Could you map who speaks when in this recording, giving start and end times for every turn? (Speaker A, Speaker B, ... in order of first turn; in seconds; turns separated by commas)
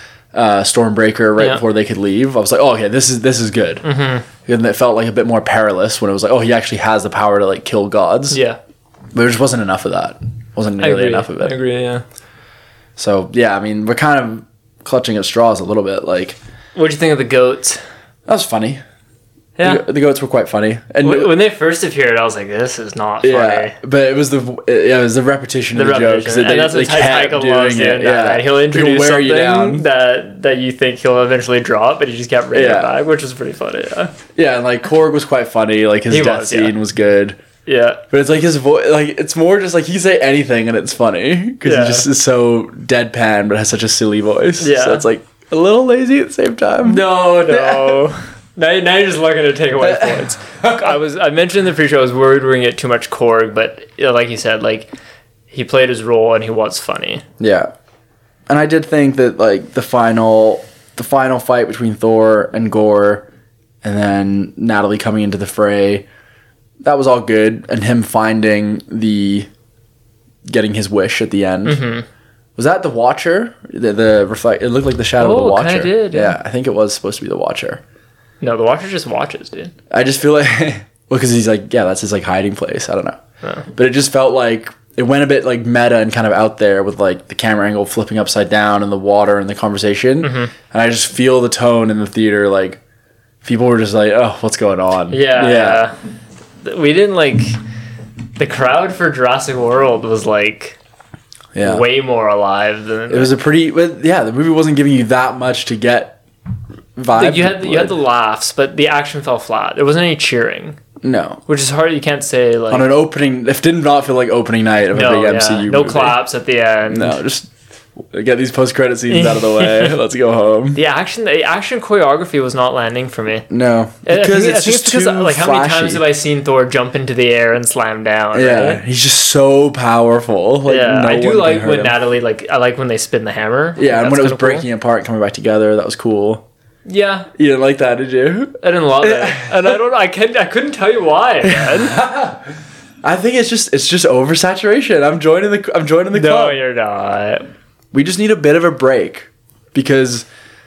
Speaker A: 0.3-3.8, Speaker B: 1.4-1.6, Speaker B: 3.8-4.3, Speaker A: 4.5-8.4, Speaker B: 8.3-8.6, Speaker A: 9.1-11.6, Speaker B: 10.8-12.0, Speaker A: 13.0-16.4, Speaker B: 16.8-17.8, Speaker A: 18.3-18.8, Speaker B: 19.6-19.8, Speaker A: 19.6-21.3, Speaker B: 21.0-23.8, Speaker A: 23.2-29.9, Speaker B: 25.7-34.1, Speaker A: 32.5-32.9, Speaker A: 34.4-37.4, Speaker B: 36.1-36.8, Speaker B: 37.7-38.0, Speaker A: 38.1-48.0, Speaker B: 41.6-42.1, Speaker B: 44.6-45.0, Speaker B: 46.8-54.9, Speaker A: 49.8-51.0, Speaker B: 55.5-57.2, Speaker A: 57.4-57.7, Speaker A: 58.5-63.3, Speaker A: 63.8-66.1, Speaker A: 66.8-69.5, Speaker A: 70.5-71.8, Speaker B: 71.7-72.1, Speaker A: 72.6-77.8, Speaker B: 75.2-76.4, Speaker B: 78.4-79.7, Speaker A: 79.9-83.2, Speaker A: 83.8-92.8, Speaker B: 90.2-90.5, Speaker A: 93.4-95.8, Speaker B: 95.1-95.9, Speaker B: 96.6-97.6, Speaker B: 98.4-100.8, Speaker A: 101.5-101.9, Speaker B: 101.6-103.3, Speaker A: 103.1-106.2, Speaker A: 107.0-108.0, Speaker B: 107.2-110.8, Speaker A: 111.0-111.4, Speaker B: 111.5-112.9, Speaker A: 112.7-116.2, Speaker B: 114.9-117.2, Speaker A: 116.9-120.8, Speaker B: 119.1-120.0, Speaker B: 120.8-123.5, Speaker A: 123.5-126.0, Speaker B: 124.1-128.8, Speaker A: 128.3-132.0, Speaker B: 130.7-134.7, Speaker A: 133.8-136.4, Speaker B: 136.9-137.3, Speaker A: 137.4-139.8, Speaker B: 138.6-142.0, Speaker A: 141.4-142.4, Speaker A: 143.0-146.6, Speaker B: 146.1-147.5, Speaker A: 147.9-150.3